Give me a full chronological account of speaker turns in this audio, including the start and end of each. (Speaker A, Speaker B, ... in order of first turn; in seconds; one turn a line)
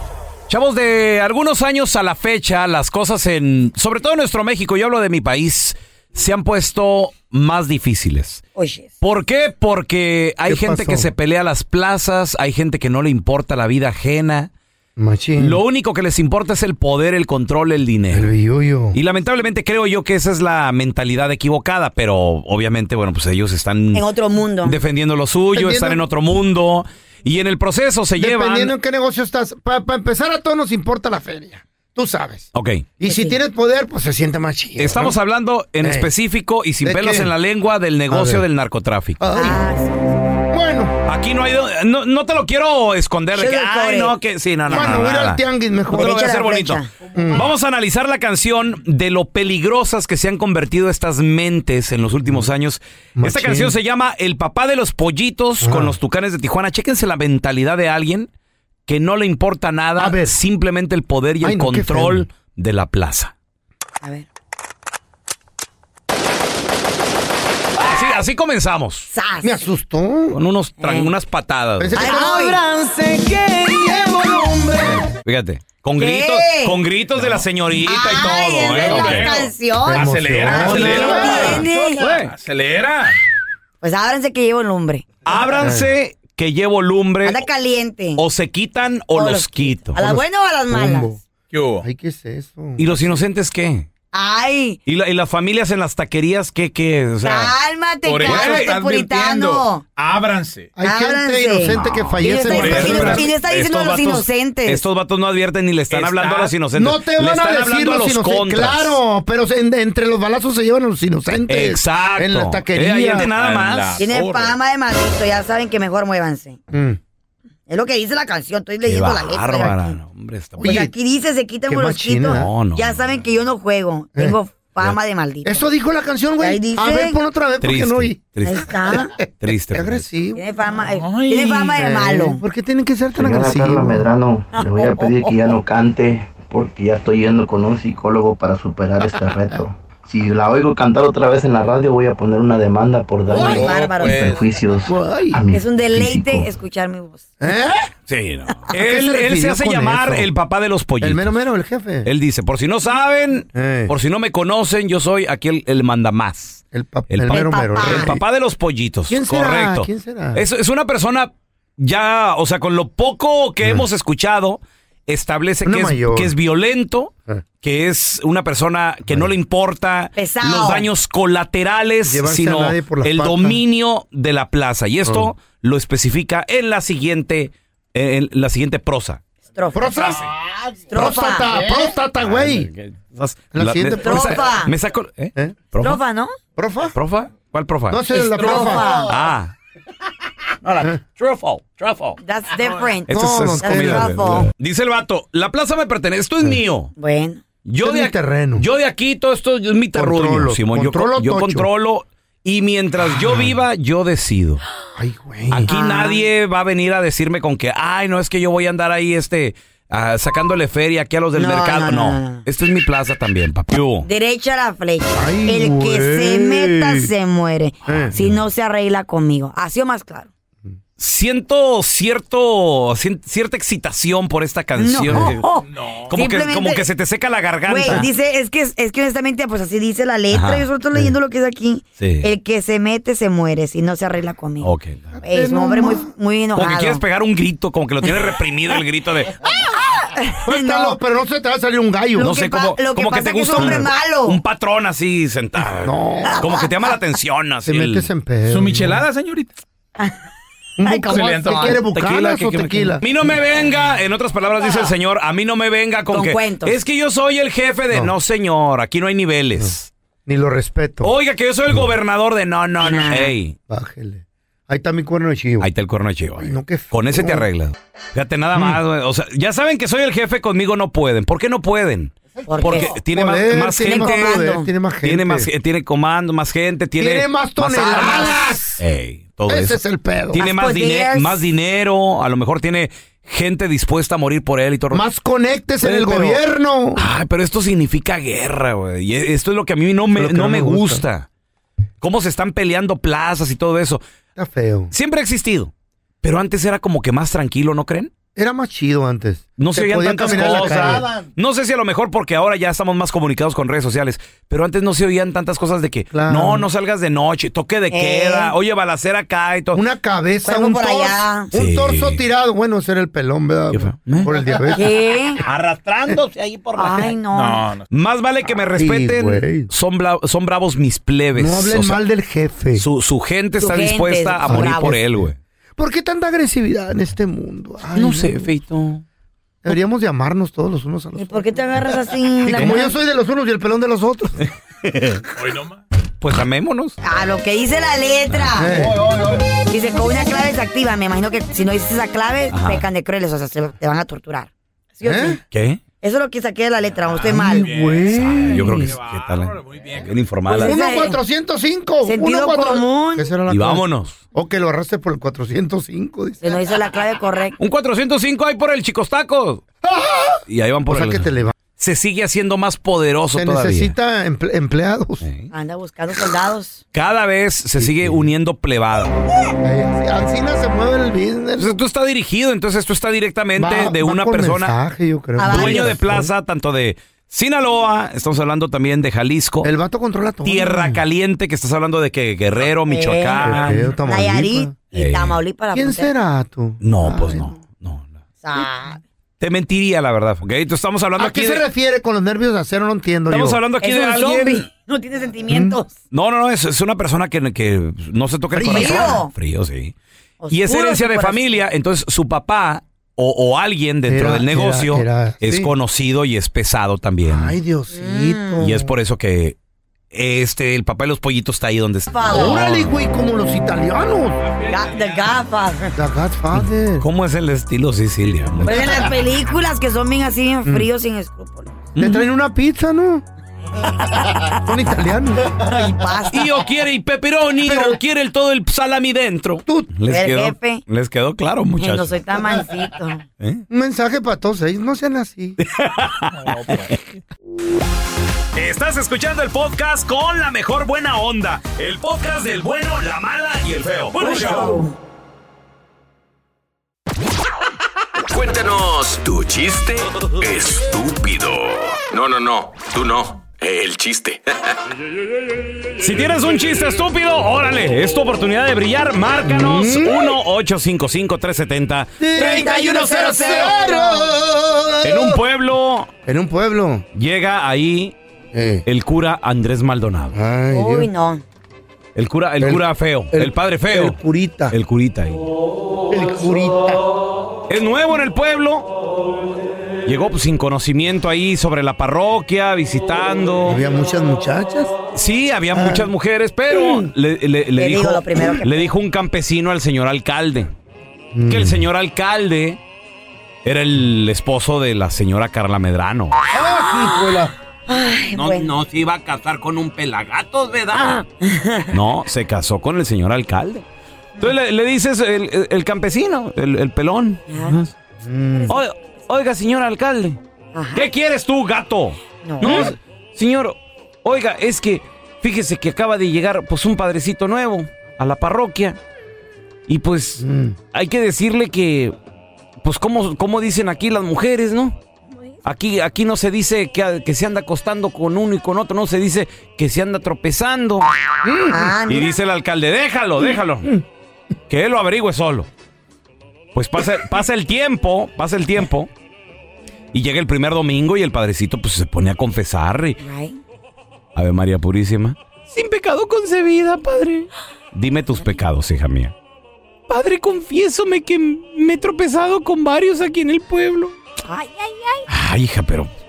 Speaker A: 0.5-8.4
Speaker B: 8.6-8.9
Speaker A: 9.0-14.5
Speaker C: 10.4-11.1
Speaker C: 15.0-15.6
Speaker A: 15.4-18.3
Speaker C: 18.1-19.0
Speaker A: 18.9-24.0
Speaker B: 23.9-24.8
Speaker A: 24.6-28.7
Speaker C: 25.5-26.0
Speaker C: 28.2-35.2
Speaker A: 32.5-32.8
Speaker B: 33.0-33.4
Speaker A: 34.8-39.2
Speaker C: 35.8-36.1
Speaker C: 36.8-37.3
Speaker C: 38.1-38.5
Speaker C: 39.2-39.7
Speaker B: 39.3-40.3
Speaker C: 40.5-41.0
Speaker A: 41.0-58.3
Speaker B: 43.3-44.1
Speaker C: 44.7-46.2
Speaker B: 44.7-45.0
Speaker B: 45.9-46.9
Speaker C: 47.1-47.5
Speaker C: 53.2-53.8
Speaker C: 55.6-56.0
Speaker A: 58.9-63.3
Speaker C: 60.0-60.4
Speaker C: 61.4-62.3
Speaker B: 64.0-64.3
Speaker A: 67.8-69.1
Speaker B: 69.1-69.5
Speaker C: 69.4-70.4
Speaker A: 70.3-72.1
Speaker B: 70.8-71.1
Speaker C: 71.8-75.1
Speaker B: 71.9-72.6
Speaker A: 75.2-79.3
Speaker B: 76.0-76.8
Speaker B: 77.8-82.1
Speaker D: 78.8-79.4
Speaker C: 79.8-81.7
Speaker D: 80.1-83.1
Speaker A: 80.5-82.3
Speaker B: 83.8-85.0
Speaker A: 85.2-87.4
Speaker C: 85.6-85.9
Speaker B: 87.2-88.2
Speaker A: 88.2-90.0
Speaker B: 89.1-91.1
Speaker C: 90.0-91.2
Speaker D: 91.5-91.8
Speaker C: 91.8-93.2
Speaker A: 92.8-93.9
Speaker B: 94.1-94.8
Speaker A: 94.8-97.5
Speaker B: 97.2-99.8
Speaker D: 98.0-100.7
Speaker A: 98.3-98.6
Speaker C: 100.8-103.3
Speaker B: 100.8-104.8
Speaker A: 101.7-109.0
Speaker D: 102.6-102.9
Speaker D: 105.9-106.6
Speaker C: 106.7-113.3
Speaker A: 111.5-114.0
Speaker D: 113.2-114.6
Speaker B: 114.0-116.6
Speaker C: 116.7-117.0
Speaker B: 117.7-120.0
Speaker A: 118.8-120.9
Speaker C: 120.6-120.9
Speaker B: 120.6-125.7
Speaker C: 121.7-122.5
Speaker A: 122.3-123.0
Speaker C: 124.2-128.2
Speaker B: 126.4-127.2
Speaker A: 127.6-128.7
Speaker B: 128.4-129.1
Speaker C: 128.9-130.4
Speaker A: 129.4-130.0
Speaker B: 130.3-132.4
Speaker D: 130.9-131.7
Speaker C: 131.7-134.1
Speaker E: 133.2-146.5
Speaker B: 134.6-135.3
Speaker B: 143.3-144.4
Speaker C: 144.8-145.4
Speaker B: 145.5-147.3
Speaker C: 147.4-147.9
Speaker A: 148.1-151.4
Speaker C: 148.7-150.3
Speaker C: 151.0-152.1
Speaker A: 152.0-179.2
Speaker C: 153.5-153.9
Speaker C: 156.7-158.2
Speaker B: 157.3-158.2
Speaker C: 159.1-160.4
Speaker C: 163.6-163.9
Speaker C: 165.6-166.3
Speaker C: 169.1-169.3
Speaker B: 170.2-170.9
Speaker C: 172.0-173.6
Speaker C: 175.0-175.3
Speaker B: 179.5-180.2
Speaker C: 179.7-180.3
Speaker B: 180.9-181.6
Speaker C: 180.9-182.7
Speaker A: 182.2-186.0
Speaker C: 183.5-184.4
Speaker B: 184.0-184.7
Speaker B: 185.8-186.3
Speaker C: 186.6-187.0
Speaker A: 186.9-189.5
Speaker C: 187.9-189.0
Speaker B: 188.4-189.1
Speaker A: 190.6-192.2
Speaker B: 192.2-194.5
Speaker A: 193.1-196.9
Speaker C: 193.1-194.4
Speaker B: 197.0-197.4
Speaker A: 197.7-204.6
Speaker C: 197.8-198.7
Speaker C: 199.9-201.7
Speaker C: 203.0-203.6
Speaker C: 204.9-205.7
Speaker A: 205.5-214.1
Speaker B: 205.7-206.3
Speaker B: 211.3-212.4
Speaker B: 214.0-220.3
Speaker C: 215.1-217.1
Speaker C: 217.8-218.2
Speaker A: 221.0-225.4
Speaker B: 224.7-226.9
Speaker C: 225.1-225.3
Speaker D: 225.7-226.1
Speaker A: 226.1-228.1
Speaker B: 227.7-234.7
Speaker A: 230.3-231.0
Speaker A: 232.0-232.3
Speaker A: 234.6-235.2
Speaker B: 235.2-237.0
Speaker C: 235.2-236.1
Speaker A: 236.5-239.3
Speaker B: 239.4-241.0
Speaker C: 240.4-242.3
Speaker B: 242.2-244.4
Speaker A: 242.2-248.1
Speaker C: 243.6-243.8
Speaker C: 245.8-246.4
Speaker C: 247.7-249.0
Speaker D: 248.5-249.5
Speaker C: 250.8-253.0
Speaker B: 250.8-251.8
Speaker D: 251.1-251.7
Speaker A: 251.9-259.9
Speaker B: 254.6-254.9
Speaker B: 256.1-256.8
Speaker C: 257.9-258.1
Speaker C: 259.6-261.1
Speaker A: 261.0-263.6
Speaker B: 262.8-263.3
Speaker C: 263.7-265.7
Speaker A: 265.6-274.4
Speaker C: 266.4-267.5
Speaker C: 268.5-268.8
Speaker B: 272.4-272.9
Speaker C: 272.6-275.5
Speaker B: 273.8-274.7
Speaker A: 275.0-279.8
Speaker C: 277.0-278.8
Speaker B: 277.9-278.2
Speaker C: 279.5-280.4
Speaker A: 280.3-285.0
Speaker B: 280.3-281.4
Speaker C: 284.9-287.0
Speaker A: 285.8-286.4
Speaker A: 286.9-291.3
Speaker C: 290.1-291.0
Speaker A: 292.0-294.0
Speaker C: 294.4-294.9
Speaker A: 294.9-298.1
Speaker C: 298.4-301.2
Speaker A: 299.6-309.8
Speaker C: 306.1-306.7
Speaker B: 307.9-308.5
Speaker C: 309.7-314.9
Speaker B: 310.4-311.5
Speaker A: 311.5-312.2
Speaker A: 313.7-314.3
Speaker B: 314.7-315.4
Speaker A: 315.5-317.1
Speaker B: 316.7-317.7
Speaker D: 317.3-317.8
Speaker A: 317.9-322.0
Speaker C: 318.8-319.7
Speaker C: 321.3-322.8
Speaker A: 322.8-325.4
Speaker B: 323.6-325.0
Speaker C: 324.4-328.4
Speaker A: 327.9-329.0
Speaker C: 329.6-334.5
Speaker B: 331.1-332.9
Speaker A: 334.8-335.2
Speaker D: 335.4-335.7
Speaker A: 336.2-337.0
Speaker B: 337.0-338.9
Speaker C: 338.5-339.1
Speaker B: 339.6-345.4
Speaker A: 342.5-342.9
Speaker C: 345.0-345.4
Speaker A: 345.5-345.8
Speaker B: 346.0-347.7
Speaker D: 347.1-348.0
Speaker C: 347.2-349.0
Speaker A: 348.1-350.8
Speaker D: 348.9-350.1
Speaker C: 350.5-356.7
Speaker B: 350.5-351.2
Speaker B: 352.0-353.3
Speaker A: 353.5-354.2
Speaker B: 356.4-357.6
Speaker A: 357.6-359.6
Speaker C: 359.8-361.5
Speaker A: 360.5-363.9
Speaker C: 363.3-365.3
Speaker A: 365.2-365.5
Speaker B: 365.5-366.8
Speaker A: 366.9-369.2
Speaker C: 367.8-368.3
Speaker C: 369.6-371.8
Speaker A: 371.6-374.7
Speaker C: 373.5-376.3
Speaker B: 375.4-375.9
Speaker A: 375.5-379.7
Speaker C: 379.6-381.0
Speaker A: 380.4-383.8
Speaker B: 382.9-386.1
Speaker C: 383.4-384.7
Speaker A: 384.9-385.4
Speaker C: 385.7-387.5
Speaker A: 386.8-388.1
Speaker B: 388.4-389.0
Speaker A: 389.4-391.6
Speaker C: 391.2-393.6
Speaker A: 393.3-394.6
Speaker B: 393.8-395.9
Speaker C: 395.5-395.8
Speaker A: 396.1-399.9
Speaker C: 398.5-399.2
Speaker B: 398.7-399.3
Speaker B: 400.4-401.5
Speaker A: 400.5-407.6
Speaker C: 404.1-405.7
Speaker C: 407.3-408.9
Speaker B: 407.9-408.8
Speaker A: 408.6-409.6
Speaker A: 410.1-412.9
Speaker B: 412.1-412.7
Speaker C: 412.2-414.5
Speaker B: 414.6-416.0
Speaker C: 415.9-417.1
Speaker A: 417.0-419.1
Speaker B: 418.6-421.9
Speaker A: 421.9-422.2
Speaker C: 422.0-423.2
Speaker B: 423.7-424.6
Speaker C: 424.5-425.6
Speaker B: 425.6-426.5
Speaker A: 426.3-432.2
Speaker C: 427.6-428.0
Speaker C: 429.6-429.9
Speaker B: 430.1-430.8
Speaker B: 431.8-433.2
Speaker C: 433.7-435.6
Speaker A: 435.7-436.5
Speaker D: 436.4-436.9
Speaker A: 438.5-444.8
Speaker B: 444.2-444.9
Speaker F: 448.3-454.5
Speaker A: 456.0-462.8
Speaker C: 459.4-460.4
Speaker C: 462.2-465.4
Speaker B: 462.3-464.3
Speaker A: 465.0-466.1
Speaker C: 466.2-467.1
Speaker A: 467.1-468.1
Speaker C: 468.5-468.9
Speaker A: 468.8-470.4
Speaker C: 470.3-471.1
Speaker B: 470.7-471.4
Speaker A: 472.1-474.1
Speaker C: 472.6-474.8
Speaker A: 474.7-475.4
Speaker C: 476.1-477.1
Speaker A: 477.7-478.9
Speaker A: 480.1-483.8
Speaker C: 483.7-484.9
Speaker A: 485.1-490.7
Speaker C: 485.7-486.1
Speaker B: 487.7-488.9
Speaker C: 491.3-491.9
Speaker A: 491.5-492.8
Speaker A: 493.6-496.4
Speaker C: 496.5-497.5
Speaker B: 496.6-497.2
Speaker B: 497.9-498.7
Speaker A: 498.3-501.2
Speaker B: 501.4-501.9
Speaker A: 501.9-503.8
Speaker A: 504.4-507.9
Speaker B: 507.5-507.8
Speaker C: 508.2-508.8
Speaker A: 508.7-510.4
Speaker B: 510.7-511.1
Speaker A: 510.9-519.0
Speaker B: 512.4-512.9
Speaker C: 512.6-512.9
Speaker A: 519.9-522.1
Speaker C: 520.4-520.8
Speaker A: 522.8-525.0
Speaker A: 525.6-531.1
Speaker C: 531.4-532.0
Speaker B: 531.7-532.3
Speaker A: 532.1-533.9
Speaker A: 534.7-535.7
Speaker A: 536.7-539.1
Speaker A: 540.1-543.2
Speaker B: 543.2-543.6
Speaker A: 544.3-549.3
Speaker A: 550.1-554.1
Speaker B: 554.5-555.2
Speaker A: 555.3-556.1